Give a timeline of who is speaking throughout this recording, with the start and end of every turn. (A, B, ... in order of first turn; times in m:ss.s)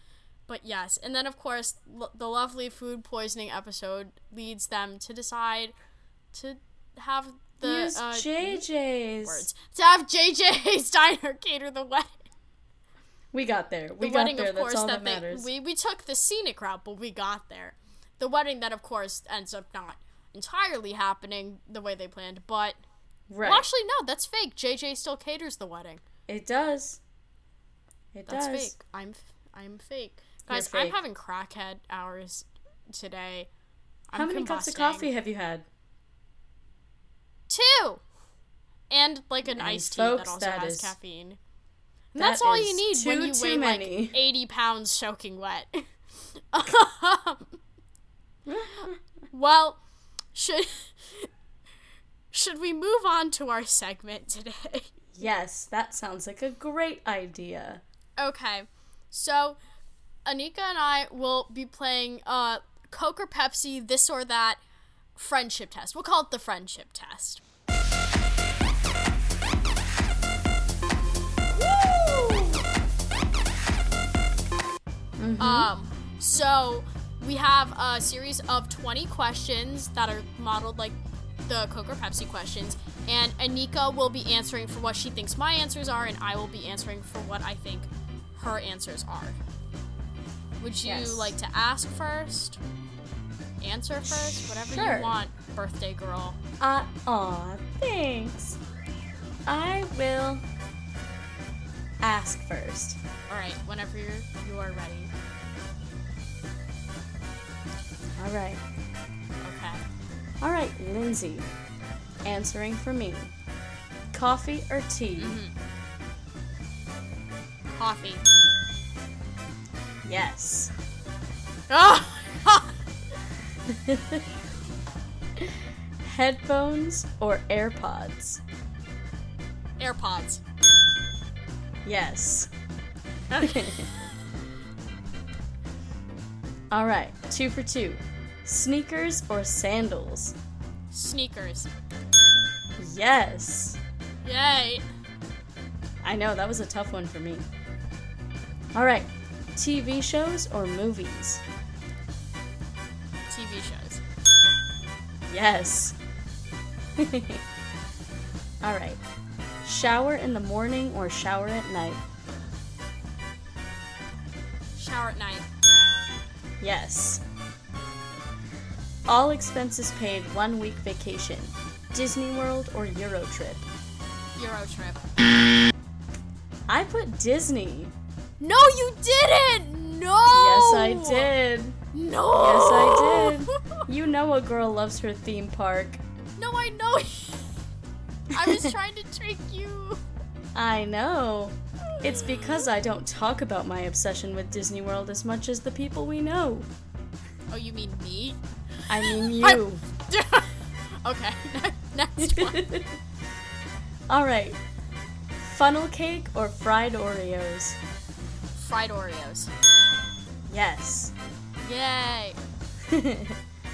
0:00.5-0:05.7 A
0:06.3-0:08.6 A
0:07.6-0:09.5 B
0:09.2-0:12.1 A
0:13.3-0:15.5 B
0:14.0-0:22.8 A
0:23.3-0:23.7 B
0:23.4-0:26.0 A
0:26.3-0:27.0 B
0:28.1-0:28.7 B
0:28.3-0:33.5 A
0:30.5-0:31.0 B
0:34.1-0:35.1 A
0:34.1-0:35.7 B
0:37.5-0:38.0 A
0:38.9-0:41.4 A
0:39.5-0:41.0 B
0:42.1-0:45.8 A
0:42.2-0:44.2 B
0:46.5-0:47.5 A
0:48.5-0:49.0 B
0:49.3-0:49.8 A
0:50.3-0:51.3 A
0:52.3-0:54.9 A
0:55.1-0:57.8 B
0:58.2-0:59.6 A
1:00.3-1:04.6 A
1:05.2-1:07.4 A
1:11.8-1:12.6 A
1:15.2-1:15.7 B
1:15.4-1:29.4 A
1:30.6-1:32.6 A
1:30.8-1:31.4 B
1:33.6-1:36.4 A
1:34.1-1:35.2 B
1:36.6-1:38.6 B
1:39.5-1:40.4 B
1:42.0-1:43.0 B
1:43.3-1:45.1 A
1:48.2-1:48.6 B
1:49.4-1:49.8 A
1:50.4-1:51.5 B
1:52.2-1:53.3 B
1:54.1-1:55.4 B
1:55.2-1:55.6 A
1:57.7-1:58.2 A
2:00.0-2:00.7 B
2:01.7-2:02.8 A
2:03.7-2:04.2 B
2:05.4-2:08.4 B
2:09.8-2:10.4 A
2:11.8-2:12.5 B
2:13.3-2:13.9 A
2:13.4-2:13.9 B
2:16.7-2:20.4 B
2:20.9-2:21.7 A
2:22.8-2:23.8 B
2:24.2-2:24.9 A
2:26.0-2:27.5 B
2:28.7-2:31.4 B
2:33.3-2:34.0 A
2:35.3-2:36.0 B
2:37.0-2:37.4 B
2:38.6-2:39.0 B
2:39.6-2:42.0 B
2:44.8-2:45.5 A
2:46.6-2:47.2 B
2:49.1-2:53.7 B
2:54.4-2:55.0 A
2:56.7-2:57.9 B
2:58.4-3:01.3 A
3:00.3-3:01.8 B
3:01.9-3:03.8 A
3:02.3-3:06.0 B
3:06.4-3:07.5 A
3:08.3-3:10.0 A
3:08.4-3:08.7 B
3:10.6-3:16.7 B
3:12.0-3:12.6 A
3:17.5-3:18.4 A
3:18.9-3:19.8 B
3:18.9-3:22.7 A
3:22.2-3:23.0 B
3:24.1-3:24.6 B
3:25.4-3:27.8 B
3:28.6-3:29.5 A
3:30.5-3:31.1 B
3:31.6-3:32.4 A
3:32.9-3:33.4 B